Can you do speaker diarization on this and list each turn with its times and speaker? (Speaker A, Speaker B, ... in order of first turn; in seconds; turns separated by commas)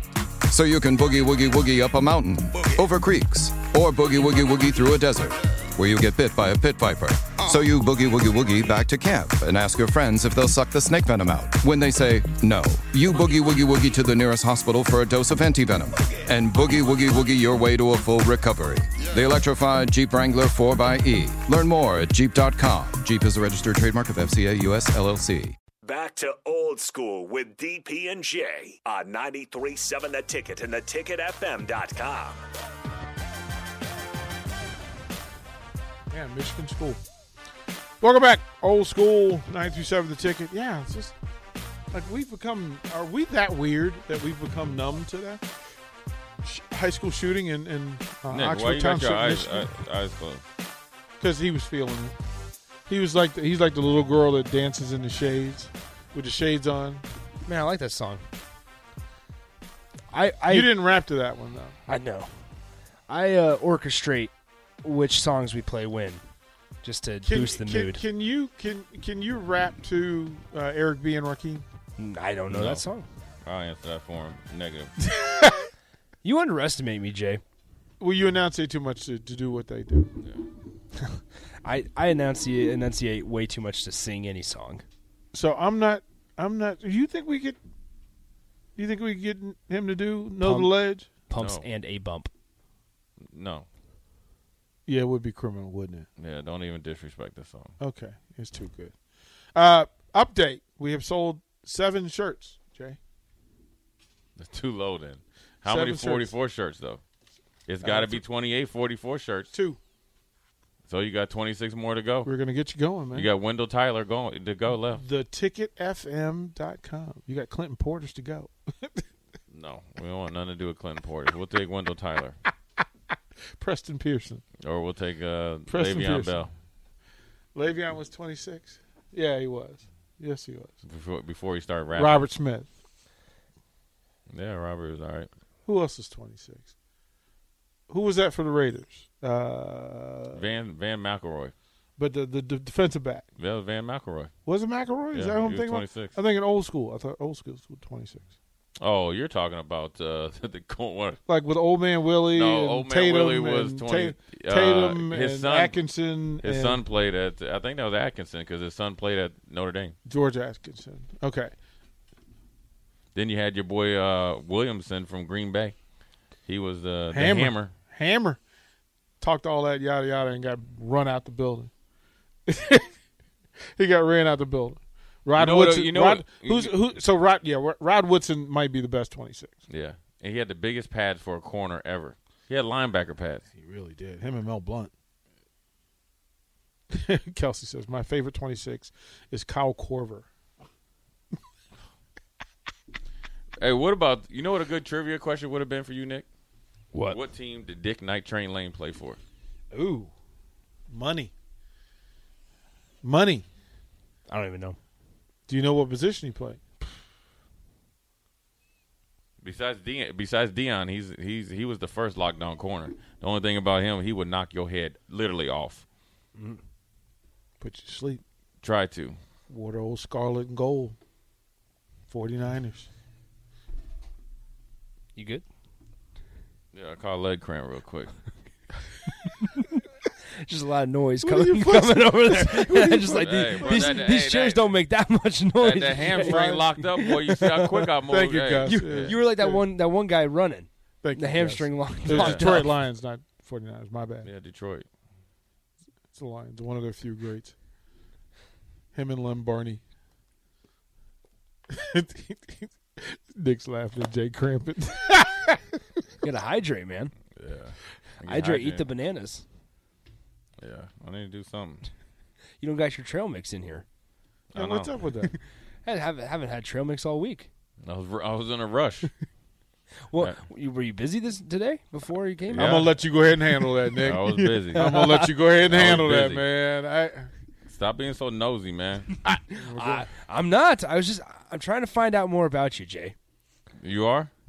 Speaker A: 0.5-25.6, Speaker B: 25.8-32.4, Speaker C: 36.1-37.0, Speaker C: 38.0-41.1, Speaker C: 41.9-45.4, Speaker C: 46.4-49.7, Speaker D: 48.3-50.4, Speaker C: 51.2-52.1, Speaker C: 52.9-57.0, Speaker E: 57.4-58.2, Speaker E: 60.1-60.7, Speaker C: 60.5-61.8, Speaker E: 61.9-62.3, Speaker E: 63.1-64.3, Speaker E: 64.8-66.2, Speaker E: 66.8-68.0, Speaker C: 67.2-71.7, Speaker E: 72.0-73.1, Speaker D: 72.5-72.8, Speaker D: 73.4-75.0, Speaker C: 75.0-75.7, Speaker E: 76.2-77.4, Speaker C: 78.0-80.1, Speaker E: 81.6-84.8, Speaker C: 85.3-87.6, Speaker C: 88.8-91.1, Speaker E: 90.4-90.7, Speaker E: 91.3-92.3, Speaker D: 91.3-91.7, Speaker D: 93.3-93.7, Speaker C: 94.9-96.1, Speaker D: 96.2-97.7, Speaker C: 97.8-98.9, Speaker C: 99.5-103.0, Speaker D: 104.4-107.0, Speaker C: 105.7-106.3, Speaker D: 107.7-109.5, Speaker C: 107.8-108.2, Speaker C: 109.5-109.8, Speaker D: 110.9-112.3, Speaker C: 112.2-113.3, Speaker D: 113.1-115.0, Speaker C: 114.9-119.0, Speaker D: 119.5-122.4, Speaker C: 123.6-124.4, Speaker D: 124.6-126.5, Speaker C: 125.7-126.5, Speaker C: 127.5-130.8, Speaker D: 130.8-132.2, Speaker C: 131.9-132.7, Speaker D: 134.3-135.3, Speaker C: 135.7-136.7, Speaker C: 137.9-140.4, Speaker D: 140.3-141.5, Speaker C: 142.0-143.3, Speaker D: 143.4-144.3, Speaker C: 144.5-148.3, Speaker D: 145.1-146.2, Speaker D: 148.8-151.2, Speaker C: 151.3-156.8, Speaker D: 152.3-155.8, Speaker D: 156.4-160.0, Speaker C: 160.1-161.5, Speaker D: 163.2-165.8, Speaker D: 166.5-167.7, Speaker C: 167.1-168.4, Speaker C: 169.2-171.7, Speaker C: 172.5-172.9, Speaker C: 173.8-179.6, Speaker D: 175.4-176.7, Speaker D: 179.7-183.5, Speaker C: 183.5-184.9, Speaker C: 186.9-190.3, Speaker D: 193.6-196.3, Speaker E: 196.9-197.2, Speaker D: 197.1-199.2, Speaker C: 199.7-200.1, Speaker C: 200.9-201.3, Speaker C: 203.0-203.5, Speaker E: 204.3-204.8, Speaker C: 205.5-206.6, Speaker D: 209.4-215.8, Speaker C: 217.6-218.2, Speaker D: 218.6-219.2, Speaker C: 219.5-221.0, Speaker C: 222.1-222.9, Speaker E: 225.2-225.4, Speaker D: 226.7-228.1, Speaker E: 230.4-237.9, Speaker C: 231.2-234.1, Speaker D: 233.1-234.7, Speaker D: 235.6-239.2, Speaker C: 235.9-236.7, Speaker C: 238.1-239.7, Speaker E: 238.6-242.8, Speaker C: 241.0-244.3, Speaker D: 242.1-242.5, Speaker D: 244.2-244.9, Speaker C: 246.1-247.5, Speaker C: 248.9-249.8, Speaker C: 251.7-255.6, Speaker E: 256.2-257.1, Speaker D: 257.4-258.9, Speaker E: 258.2-259.4, Speaker D: 260.6-261.9, Speaker E: 262.6-263.9, Speaker D: 264.5-264.9, Speaker C: 264.6-265.4, Speaker E: 265.9-267.5, Speaker D: 267.8-269.1, Speaker E: 270.1-272.9, Speaker D: 272.5-272.9, Speaker C: 272.6-277.3, Speaker E: 273.8-275.2, Speaker D: 274.0-276.4, Speaker D: 277.7-279.2, Speaker E: 279.2-283.1, Speaker C: 279.5-280.1, Speaker D: 283.8-284.3